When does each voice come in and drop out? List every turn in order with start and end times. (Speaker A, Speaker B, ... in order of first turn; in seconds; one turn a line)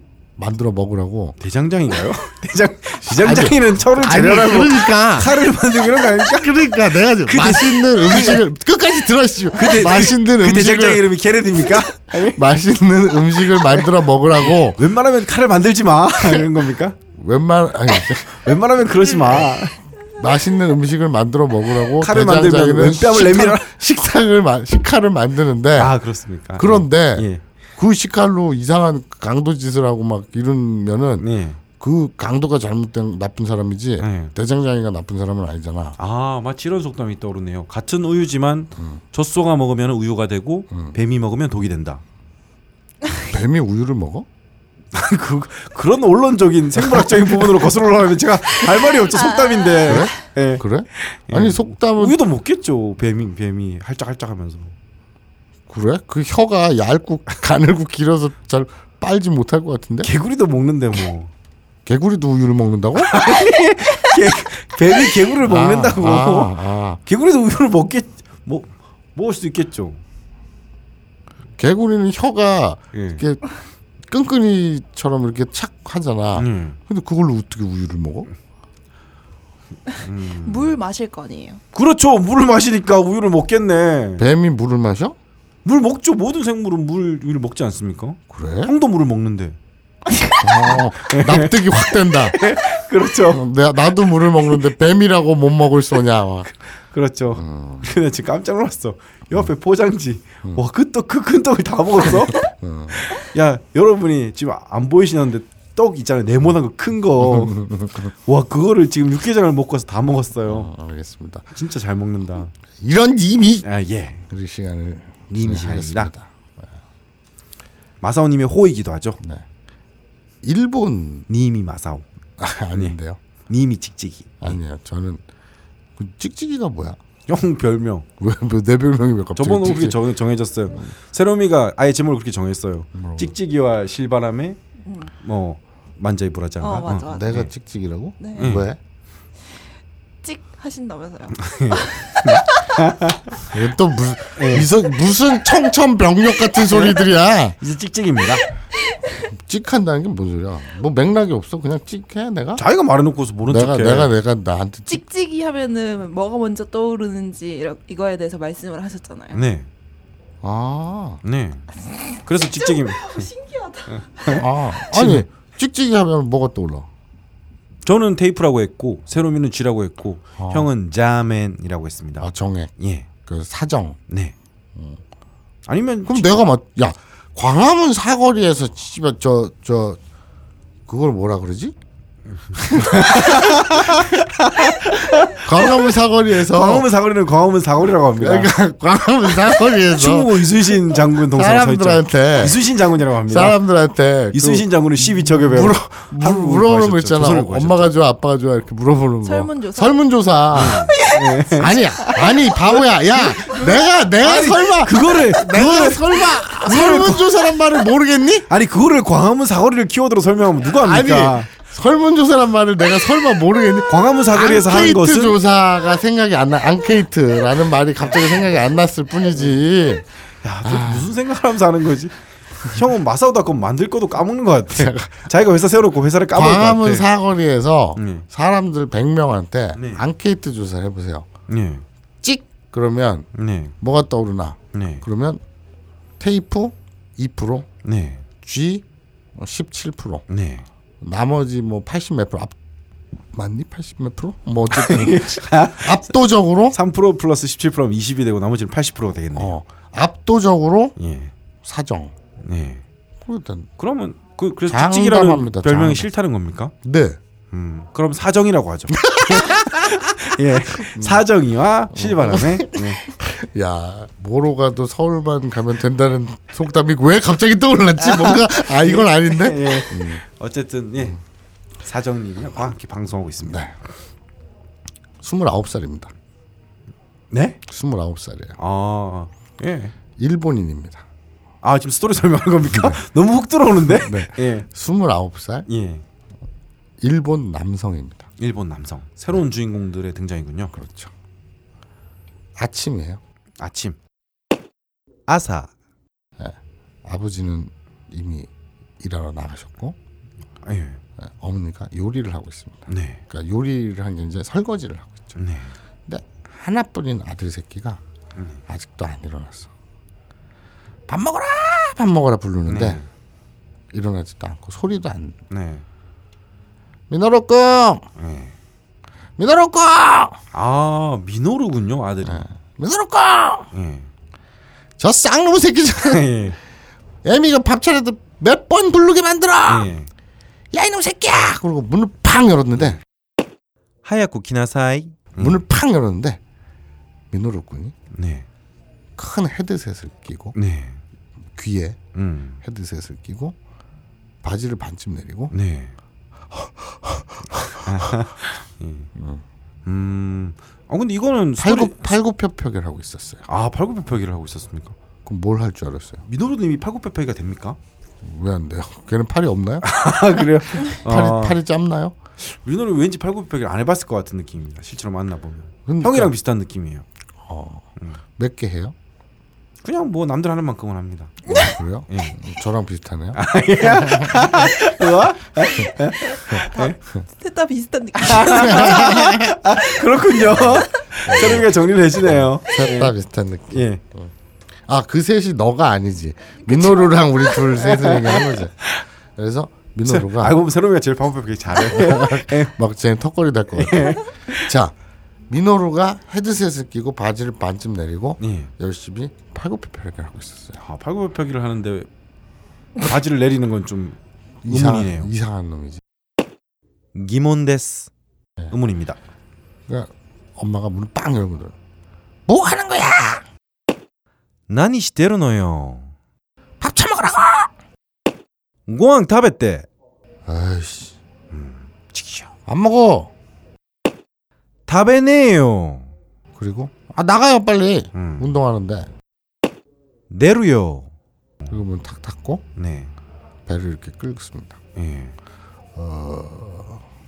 Speaker A: 0.4-1.4
Speaker B: 1.4-6.6
Speaker A: 3.0-5.4
Speaker A: 6.1-11.1
Speaker B: 7.2-8.4
Speaker B: 9.6-12.4
Speaker A: 12.1-14.8
Speaker B: 14.7-17.0
Speaker A: 17.1-18.6
Speaker B: 18.2-19.8
Speaker A: 20.1-26.0
Speaker B: 22.0-23.8
Speaker B: 25.8-27.4
Speaker A: 26.6-31.3
Speaker B: 31.2-31.6
Speaker A: 31.8-36.0
Speaker B: 34.0-34.3
Speaker B: 36.0-42.0
Speaker A: 38.8-39.0
Speaker A: 40.7-41.0
Speaker A: 43.1-44.3
Speaker B: 44.9-54.7
Speaker A: 46.8-47.3
Speaker C: 49.1-50.0
Speaker A: 49.9-52.2
Speaker A: 55.7-60.1
Speaker B: 60.0-61.3
Speaker A: 61.9-63.3
Speaker B: 63.0-66.5
Speaker A: 65.4-67.0
Speaker B: 67.1-70.0
Speaker A: 71.6-73.4
Speaker B: 72.9-73.2
Speaker A: 74.1-78.3
Speaker B: 76.4-76.8
Speaker B: 80.0-80.8
Speaker C: 80.4-81.6
Speaker B: 81.7-84.2
Speaker A: 84.2-85.2
Speaker B: 85.7-89.6
Speaker A: 88.3-88.7
Speaker A: 90.4-92.4
Speaker B: 91.0-91.6
Speaker B: 92.3-93.4
Speaker A: 93.3-96.5
Speaker B: 96.9-102.5
Speaker A: 97.3-97.9
Speaker A: 102.1-103.1
Speaker B: 103.1-107.6
Speaker A: 107.2-108.1
Speaker B: 108.2-110.7
Speaker A: 110.5-111.5
Speaker B: 111.5-112.5
Speaker A: 112.8-113.7
Speaker B: 113.6-114.2
Speaker A: 114.3-116.7
Speaker B: 115.3-116.1
Speaker B: 118.0-119.2
Speaker A: 120.4-121.3
Speaker B: 121.3-122.1
Speaker A: 122.4-123.2
Speaker B: 123.5-124.6
Speaker A: 124.4-125.2
Speaker A: 126.0-127.0
Speaker B: 127.3-128.1
Speaker A: 128.2-130.0
Speaker B: 129.4-134.6
Speaker A: 132.9-133.3
Speaker C: 134.9-135.1
Speaker B: 135.2-137.5
Speaker C: 136.6-137.4
Speaker A: 137.0-138.8
Speaker C: 138.2-138.6
Speaker B: 138.3-138.7
Speaker C: 140.2-142.7
Speaker B: 141.4-143.4
Speaker A: 143.5-147.6
Speaker B: 144.4-144.7
Speaker B: 147.6-148.4
Speaker A: 149.2-152.6
Speaker B: 152.6-154.1
Speaker A: 153.5-155.0
Speaker C: 154.9-159.4
Speaker B: 159.3-159.7
Speaker A: 160.4-161.2
Speaker B: 161.2-161.7
Speaker C: 162.1-164.4
Speaker B: 162.2-163.3
Speaker B: 163.9-165.3
Speaker A: 164.3-166.9
Speaker B: 167.8-173.1
Speaker A: 170.4-170.7
Speaker A: 172.2-172.7
Speaker A: 173.2-174.0
Speaker B: 174.1-174.3
Speaker A: 174.8-175.0
Speaker B: 175.7-176.4
Speaker A: 176.1-180.0
Speaker A: 180.9-181.8
Speaker A: 182.5-184.2
Speaker B: 182.5-185.9
Speaker A: 184.9-186.9
Speaker B: 186.4-188.5
Speaker A: 188.2-192.6
Speaker B: 189.8-193.6
Speaker A: 193.3-200.9
Speaker B: 194.3-197.9
Speaker C: 199.2-200.0
Speaker B: 200.5-201.8
Speaker C: 200.6-203.8
Speaker A: 201.5-208.5
Speaker B: 204.2-207.3
Speaker B: 208.5-211.5
Speaker A: 210.7-220.1
Speaker B: 213.9-215.4
Speaker B: 220.4-227.1
Speaker A: 220.6-221.1
Speaker A: 224.7-225.3
Speaker A: 226.3-231.3
Speaker B: 228.0-228.3
Speaker B: 229.8-230.1
Speaker B: 231.5-231.9
Speaker A: 232.2-233.3
Speaker B: 233.3-233.8
Speaker A: 233.8-235.4
Speaker B: 234.7-235.0
Speaker A: 236.2-237.7
Speaker B: 237.8-238.2
Speaker A: 238.4-238.8
Speaker A: 239.4-240.2
Speaker B: 240.3-240.7
Speaker A: 241.0-242.6
Speaker A: 243.3-246.8
Speaker B: 244.7-246.1
Speaker B: 246.7-249.6
Speaker A: 249.3-251.0
Speaker B: 251.0-251.3
Speaker A: 251.6-252.2
Speaker B: 252.4-252.8
Speaker A: 253.2-253.7
Speaker B: 253.8-256.7
Speaker A: 254.7-256.1
Speaker A: 256.8-257.2
Speaker B: 257.5-263.0
Speaker A: 258.9-261.2
Speaker A: 261.9-270.2
Speaker B: 268.0-271.2
Speaker B: 271.8-273.7
Speaker A: 273.4-273.8
Speaker A: 275.2-276.1
Speaker B: 277.3-277.6
Speaker A: 277.7-278.6
Speaker B: 278.6-279.9
Speaker A: 280.2-281.1
Speaker B: 281.6-284.7
Speaker A: 282.7-283.0
Speaker A: 283.8-285.7
Speaker B: 285.7-286.0
Speaker A: 287.0-288.3
Speaker B: 288.4-290.7
Speaker A: 290.7-291.1
Speaker A: 292.6-293.2
Speaker B: 293.6-294.0
Speaker B: 295.3-295.7
Speaker A: 296.4-300.0
Speaker B: 300.6-301.0
Speaker A: 301.2-305.4
Speaker B: 302.9-303.2
Speaker B: 305.4-305.8
Speaker A: 306.1-308.0
Speaker B: 308.4-308.6
Speaker A: 308.7-309.7
Speaker A: 311.1-313.0
Speaker B: 312.7-313.1
Speaker A: 313.9-315.4
Speaker B: 315.5-315.9
Speaker A: 317.1-318.1
Speaker B: 318.2-318.6
Speaker A: 319.4-320.4
Speaker B: 320.5-322.5
Speaker A: 322.2-323.7
Speaker B: 323.7-324.1
Speaker A: 325.0-326.4
Speaker B: 326.0-326.6
Speaker A: 327.2-329.9
Speaker B: 329.7-330.1
Speaker A: 330.7-333.0
Speaker B: 332.8-333.0
Speaker B: 334.0-335.6
Speaker A: 335.4-336.4
Speaker A: 337.3-337.9
Speaker B: 338.1-338.5
Speaker A: 339.2-340.6
Speaker B: 340.6-341.0
Speaker A: 341.6-342.0
Speaker B: 342.1-342.6
Speaker A: 342.6-343.6
Speaker A: 344.4-345.5
Speaker B: 345.5-346.0
Speaker A: 346.5-348.1
Speaker B: 347.8-349.1
Speaker A: 349.2-349.4
Speaker B: 349.9-352.1
Speaker A: 351.6-353.4
Speaker B: 353.5-355.0
Speaker A: 355.2-356.2
Speaker B: 356.3-357.8
Speaker A: 358.2-359.9
Speaker B: 359.8-361.6
Speaker A: 360.7-362.2
Speaker B: 362.4-367.1
Speaker A: 365.9-366.3
Speaker A: 367.4-368.9
Speaker B: 369.8-372.4
Speaker A: 371.5-374.5
Speaker B: 373.4-377.0
Speaker C: 376.3-379.2
Speaker B: 378.2-383.1
Speaker A: 378.4-379.6
Speaker A: 380.4-384.3
Speaker B: 383.7-384.0
Speaker A: 384.9-390.6
Speaker B: 387.8-389.0
Speaker B: 390.1-392.7
Speaker A: 391.7-394.9
Speaker B: 393.8-394.7
Speaker A: 395.5-400.8
Speaker B: 398.4-398.7
Speaker B: 400.8-402.1
Speaker B: 403.0-405.3
Speaker A: 404.6-406.0
Speaker B: 407.1-408.1
Speaker B: 408.7-409.2
Speaker A: 409.9-411.8
Speaker A: 412.5-413.4
Speaker B: 414.7-416.1
Speaker A: 416.8-417.7
Speaker B: 418.9-419.9
Speaker A: 420.5-421.2
Speaker B: 421.5-422.5
Speaker A: 422.7-423.3
Speaker B: 424.9-426.1
Speaker A: 426.6-429.1
Speaker B: 428.1-428.5
Speaker B: 430.3-431.1
Speaker A: 431.7-432.6
Speaker B: 432.8-433.1
Speaker A: 433.7-434.8
Speaker B: 435.0-435.4
Speaker A: 435.9-437.1